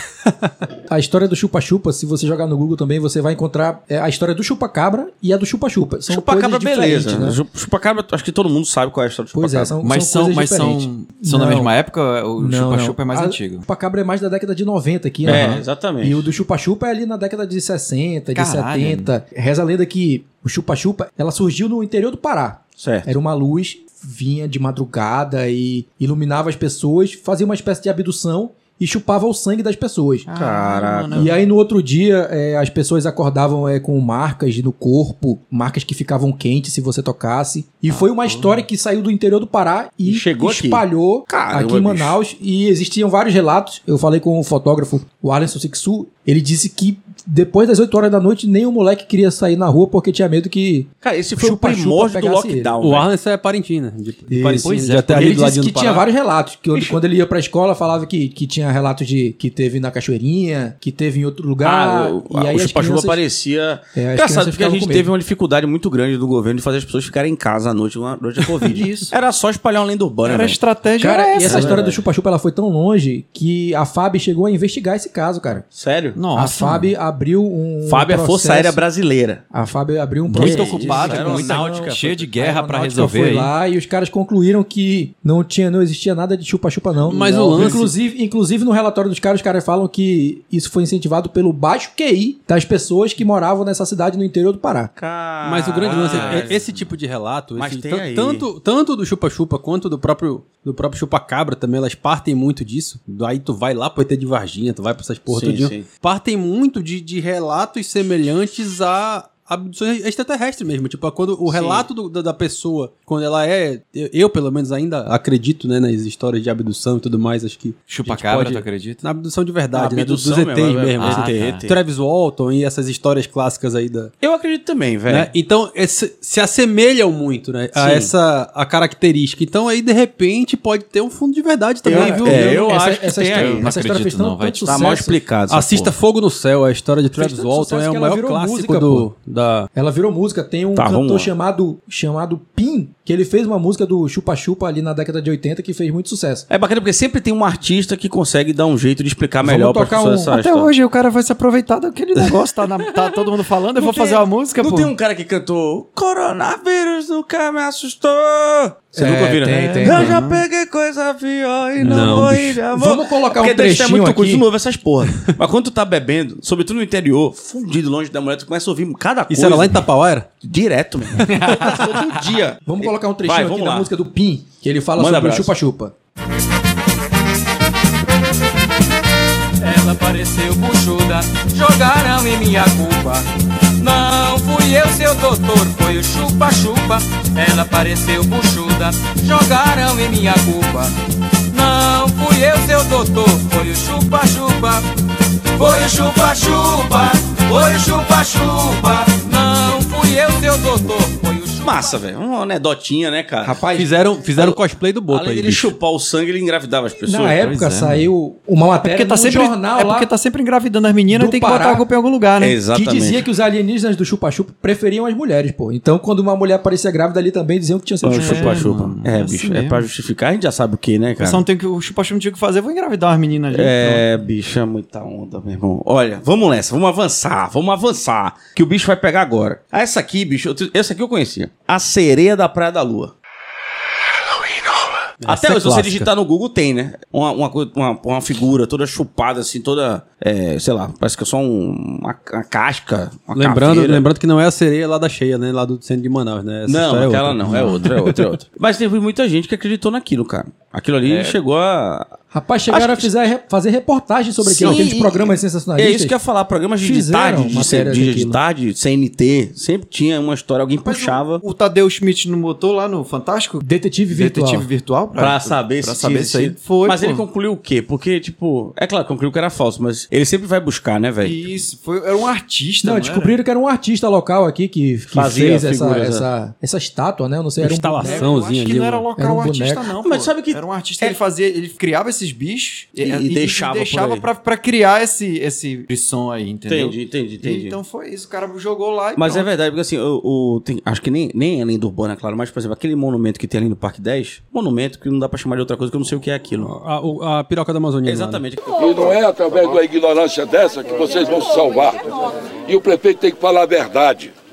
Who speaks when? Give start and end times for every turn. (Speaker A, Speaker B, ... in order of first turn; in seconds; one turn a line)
Speaker A: 0.9-7.4
Speaker B: 6.1-9.7
Speaker A: 9.3-11.7
Speaker C: 9.8-13.6
Speaker A: 12.4-30.3
Speaker C: 15.2-15.6
Speaker B: 15.2-16.3
Speaker C: 18.3-19.1
Speaker B: 22.8-23.1
Speaker C: 30.2-31.4
Speaker B: 30.3-31.2
Speaker A: 31.1-52.7
Speaker C: 37.9-38.6
Speaker B: 40.0-42.1
Speaker B: 51.0-53.1
Speaker D: 52.8-56.0
Speaker A: 54.3-63.2
Speaker C: 54.6-55.4
Speaker B: 56.7-57.0
Speaker B: 61.6-70.6
Speaker A: 63.9-65.1
Speaker C: 68.6-69.1
Speaker C: 70.2-71.8
Speaker A: 71.0-75.6
Speaker B: 71.4-72.0
Speaker B: 75.7-76.2
Speaker C: 76.1-76.9
Speaker A: 76.3-78.8
Speaker B: 77.8-79.4
Speaker A: 79.5-94.9
Speaker C: 80.3-83.5
Speaker B: 80.3-82.3
Speaker D: 87.0-87.9
Speaker B: 87.5-87.8
Speaker B: 95.0-96.7
Speaker D: 95.4-124.1
Speaker C: 95.9-96.8
Speaker B: 97.6-98.5
Speaker B: 105.3-105.9
Speaker B: 111.5-111.9
Speaker C: 117.9-119.0
Speaker B: 119.7-121.8
Speaker C: 121.0-121.6
Speaker B: 124.2-125.3
Speaker D: 125.1-132.6
Speaker B: 127.8-128.1
Speaker B: 131.8-133.7
Speaker A: 131.8-135.2
Speaker C: 133.3-134.9
Speaker B: 134.7-135.9
Speaker D: 135.5-139.7
Speaker A: 137.1-139.1
Speaker A: 139.7-146.4
Speaker B: 140.7-141.3
Speaker B: 146.5-150.7
Speaker A: 149.4-150.3
Speaker C: 150.3-154.9
Speaker B: 153.8-169.9
Speaker A: 158.9-160.2
Speaker C: 159.8-160.4
Speaker D: 161.8-162.6
Speaker A: 162.7-164.4
Speaker D: 169.3-170.3
Speaker B: 170.4-173.9
Speaker C: 171.4-172.0
Speaker A: 172.7-175.9
Speaker B: 175.0-175.5
Speaker E: 179.6-183.2
Speaker E: 183.8-190.9
Speaker E: 191.5-194.8
Speaker E: 195.6-202.0
Speaker B: 201.6-203.6
Speaker A: 203.4-203.9
Speaker D: 203.7-205.7
Speaker B: 204.3-207.4
Speaker A: 207.1-210.1
Speaker C: 207.3-208.1
Speaker C: 208.8-212.6
Speaker A: 211.1-211.8
Speaker B: 212.4-213.2
Speaker A: 212.7-218.6
Speaker B: 218.0-221.4
Speaker C: 218.1-219.8
Speaker C: 221.2-224.0
Speaker B: 223.5-233.1
Speaker D: 235.2-236.1
Speaker B: 235.2-244.0
Speaker D: 243.3-248.3
Speaker B: 246.7-252.1
Speaker C: 247.5-247.9
Speaker C: 251.0-251.4
Speaker A: 252.3-256.1
Speaker B: 252.7-253.2
Speaker B: 254.4-261.4
Speaker C: 254.6-254.8
Speaker A: 256.8-258.4
Speaker C: 260.8-267.2
Speaker A: 263.6-264.7
Speaker B: 265.1-271.4
Speaker C: 271.2-273.4
Speaker A: 272.8-278.3
Speaker B: 275.1-276.2
Speaker D: 277.6-279.1
Speaker C: 278.0-289.5
Speaker A: 279.2-279.9
Speaker B: 280.0-281.2
Speaker B: 283.0-284.3
Speaker B: 286.7-287.8
Speaker B: 289.1-296.7
Speaker D: 296.6-298.4
Speaker B: 298.0-299.7
Speaker F: 298.8-304.3